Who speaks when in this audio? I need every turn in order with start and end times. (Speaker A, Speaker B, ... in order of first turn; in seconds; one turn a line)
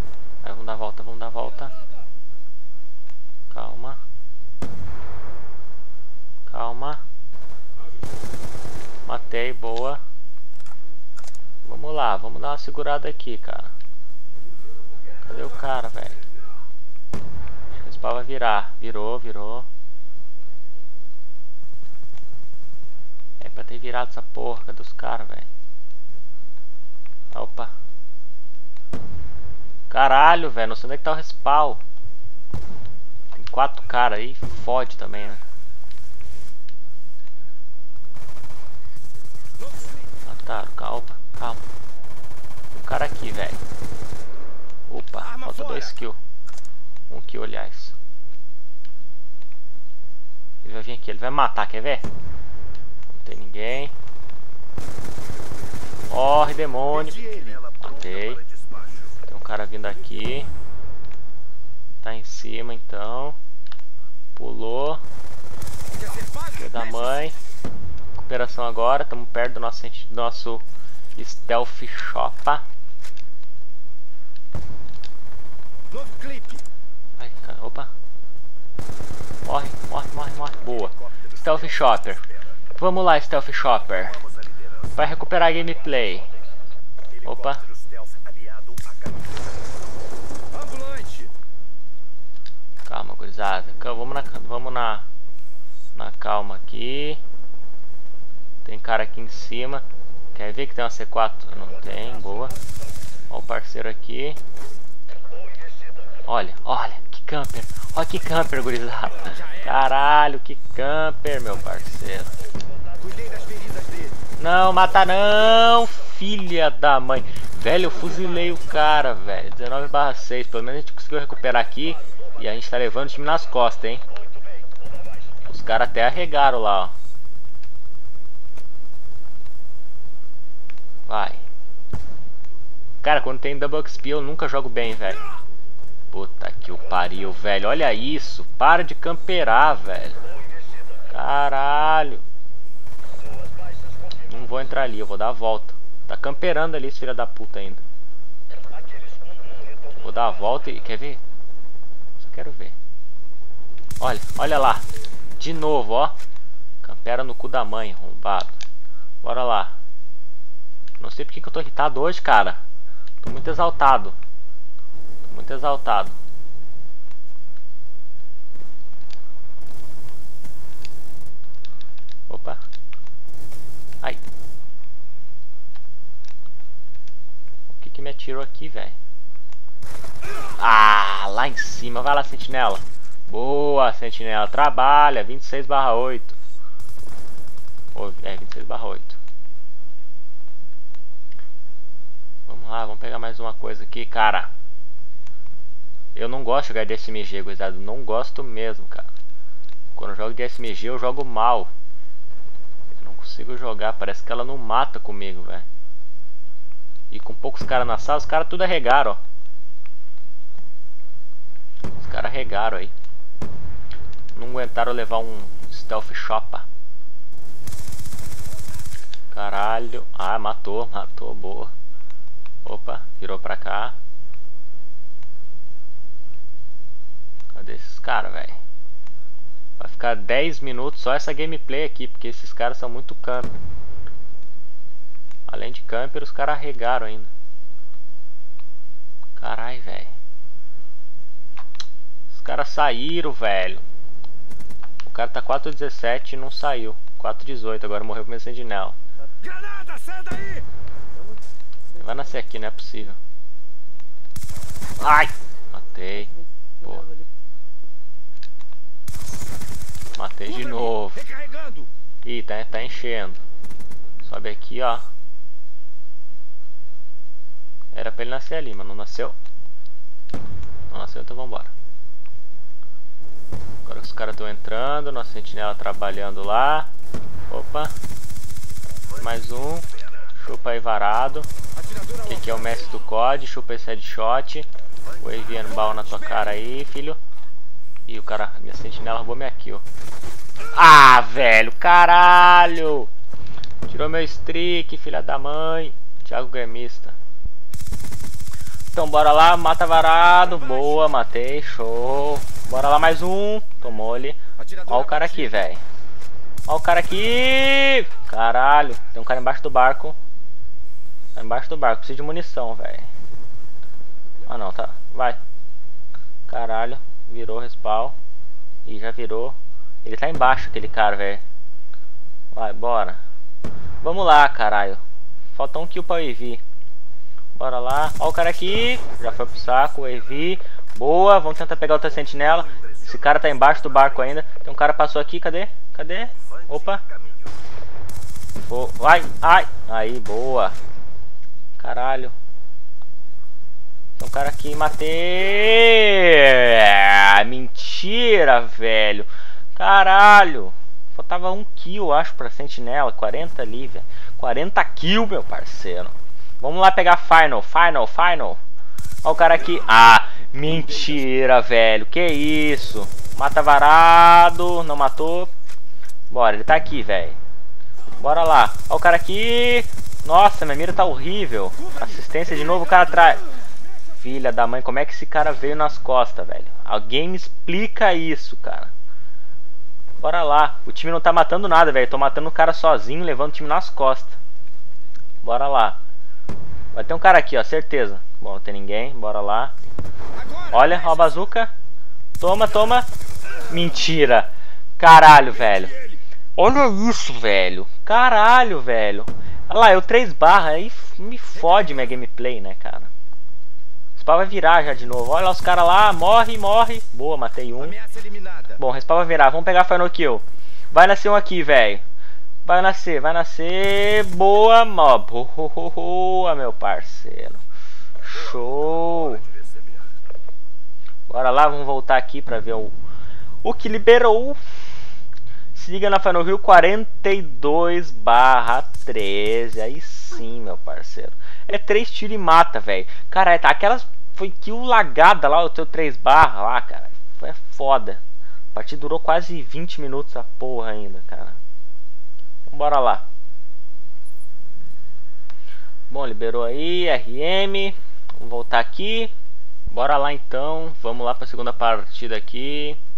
Speaker A: 0.4-1.8
Speaker A: 3.5-4.0
Speaker A: 6.5-7.0
Speaker A: 9.1-10.0
Speaker A: 11.6-13.7
Speaker A: 15.2-16.2
Speaker A: 17.7-19.7
Speaker A: 23.4-25.5
Speaker A: 27.3-27.7
Speaker A: 29.9-31.8
Speaker A: 33.4-35.4
Speaker A: 40.3-41.6
Speaker A: 42.7-43.6
Speaker A: 44.9-46.2
Speaker A: 47.1-48.0
Speaker A: 50.6-52.1
Speaker A: 53.1-53.9
Speaker A: 56.1-57.2
Speaker B: 57.1-57.6
Speaker A: 57.8-58.4
Speaker A: 59.3-60.5
Speaker A: 62.0-63.4
Speaker A: 64.4-65.0
Speaker B: 66.0-66.6
Speaker A: 66.6-67.4
Speaker A: 68.2-70.6
Speaker A: 71.2-72.6
Speaker B: 75.9-76.6
Speaker A: 77.2-77.9
Speaker A: 79.5-84.2
Speaker A: 85.0-86.3
Speaker A: 87.2-87.7
Speaker B: 90.5-91.3
Speaker A: 92.9-95.0
Speaker A: 96.0-97.2
Speaker A: 98.7-102.5
Speaker A: 103.3-104.4
Speaker A: 106.3-112.3
Speaker B: 113.0-114.2
Speaker A: 114.4-124.0
Speaker A: 125.5-126.9
Speaker A: 131.1-131.4
Speaker A: 133.0-135.2
Speaker A: 136.1-140.2
Speaker A: 141.1-142.2
Speaker A: 144.3-147.8
Speaker A: 150.0-151.2
Speaker A: 152.2-152.8
Speaker A: 154.0-154.8
Speaker A: 155.4-156.2
Speaker A: 156.8-158.6
Speaker A: 159.2-159.8
Speaker A: 161.0-162.6
Speaker A: 163.2-164.2
Speaker A: 165.2-166.2
Speaker A: 172.3-172.6
Speaker A: 177.7-179.0
Speaker A: 180.6-186.4
Speaker A: 187.9-189.2
Speaker A: 192.5-194.5
Speaker A: 196.2-199.1
Speaker A: 200.0-201.7
Speaker A: 203.0-205.7
Speaker A: 207.1-209.2
Speaker A: 212.0-212.9
Speaker A: 214.3-216.7
Speaker A: 219.3-221.7
Speaker A: 222.7-224.0
Speaker A: 227.5-228.6
Speaker A: 229.8-233.5
Speaker A: 235.5-237.3
Speaker A: 239.4-240.1
Speaker A: 242.3-243.8
Speaker A: 245.0-249.0
Speaker B: 249.4-250.7
Speaker A: 252.0-253.2
Speaker A: 255.0-257.1
Speaker A: 260.1-261.3
Speaker B: 261.2-261.9
Speaker A: 262.2-263.4
Speaker A: 264.2-265.1
Speaker A: 267.9-269.4
Speaker A: 270.9-271.7
Speaker A: 273.9-276.9
Speaker A: 277.5-277.9
Speaker A: 279.1-281.5
Speaker B: 281.9-282.2
Speaker A: 282.2-284.7
Speaker A: 285.2-287.2
Speaker A: 288.1-289.8
Speaker A: 290.7-293.1
Speaker A: 293.9-297.1
Speaker A: 298.9-305.8
Speaker B: 304.6-305.5
Speaker A: 306.7-310.2
Speaker A: 311.4-313.1
Speaker A: 314.5-315.4
Speaker A: 316.5-318.2
Speaker A: 318.9-321.4
Speaker A: 322.5-323.2
Speaker A: 324.0-325.0
Speaker A: 325.6-326.6
Speaker A: 327.6-337.0
Speaker A: 338.6-340.8
Speaker A: 341.8-342.4
Speaker A: 344.2-358.6
Speaker A: 359.2-365.5
Speaker A: 366.3-367.4
Speaker A: 368.2-373.4
Speaker A: 374.1-378.9
Speaker A: 380.2-384.4
Speaker A: 385.4-386.0
Speaker A: 386.9-389.7
Speaker B: 390.4-390.7
Speaker A: 390.7-391.7
Speaker A: 392.4-393.1
Speaker A: 393.6-395.9
Speaker A: 396.6-403.1
Speaker A: 404.2-408.0
Speaker B: 407.9-408.8
Speaker A: 408.8-412.0
Speaker A: 412.6-417.6
Speaker A: 418.2-419.5
Speaker A: 421.3-423.0
Speaker A: 423.6-424.6
Speaker A: 425.8-438.2
Speaker A: 438.7-441.6
Speaker A: 442.7-443.2
Speaker A: 446.1-449.3
Speaker A: 449.9-453.0